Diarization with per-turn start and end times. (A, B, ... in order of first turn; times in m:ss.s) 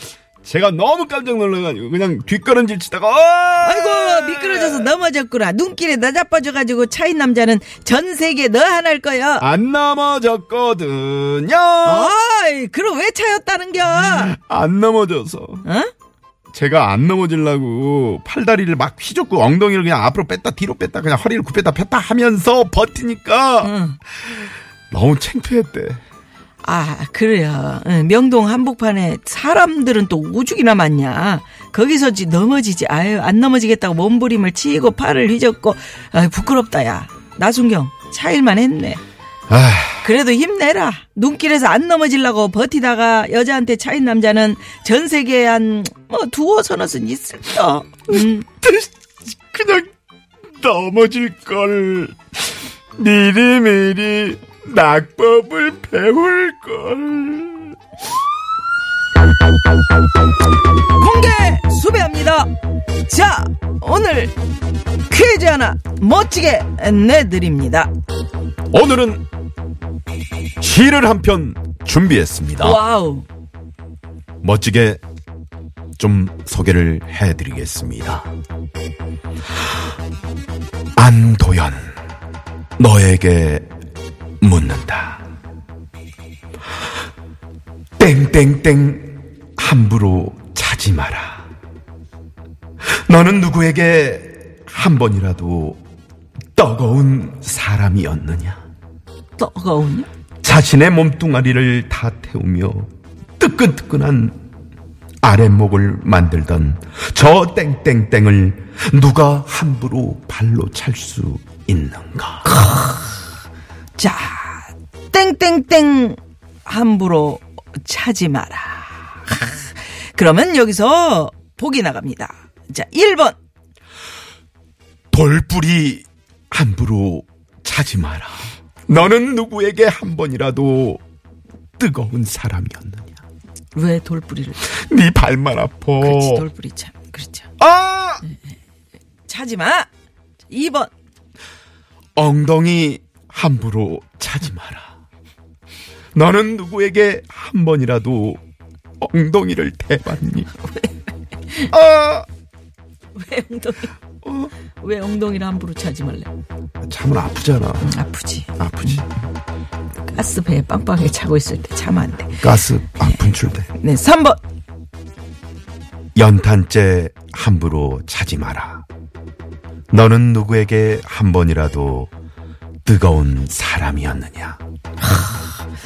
0:00.4-0:04.9 A
0:03.6-0:09.4 B
0:09.4-0:12.1 A
0:11.8-0:14.3 B
0:13.9-0:15.6 A
0:15.6-0:15.9 B
0:16.5-0:23.7 A
0:23.6-0:24.0 B
0:24.9-0:26.0 A
0:26.6-0:39.0 B
0:39.5-0:40.1 A
0:40.0-0:48.5 B
0:48.1-0:48.9 A
0:49.5-0:49.9 A
0:50.6-0:52.2 A
0:53.0-0:57.8 A
1:00.9-1:02.5 B
1:03.1-1:04.3 B
1:05.1-1:07.9 B
1:08.7-1:09.2 A
1:10.6-1:12.8 A
1:12.6-1:13.2 B
1:14.4-1:15.0 A
1:16.0-1:18.3 A
1:21.0-1:21.9 A
1:22.8-1:23.6 A
1:24.4-1:25.2 A
1:28.0-1:31.4 A
1:32.9-1:35.8 A
1:36.5-1:38.6 A
1:39.4-1:40.1 B
1:40.4-1:44.3 A
1:45.2-1:52.5 A
1:52.4-1:53.2 B
1:54.0-2:03.4 B
2:05.1-2:11.0 A
2:11.8-2:13.2 A
2:13.7-2:14.6 B
2:14.6-2:16.4 A
2:16.0-2:17.5 B
2:17.6-2:18.2 A
2:19.3-2:19.9 B
2:20.5-2:20.9 B
2:22.2-2:24.9 A
2:26.1-2:28.4 A
2:29.0-2:30.5 A
2:30.6-2:30.9 B
2:31.7-2:32.2 A
2:33.1-2:34.0 B
2:34.2-2:34.5 A
2:34.7-2:36.3 B
2:36.8-2:37.9 A
2:37.8-2:39.0 B
2:38.6-2:39.1 A
2:40.1-2:42.4 B
2:42.4-2:43.7 A
2:43.0-2:44.4 B
2:46.1-2:48.8 A
2:49.9-2:52.1 A
2:52.8-2:54.6 A
2:55.1-2:55.4 B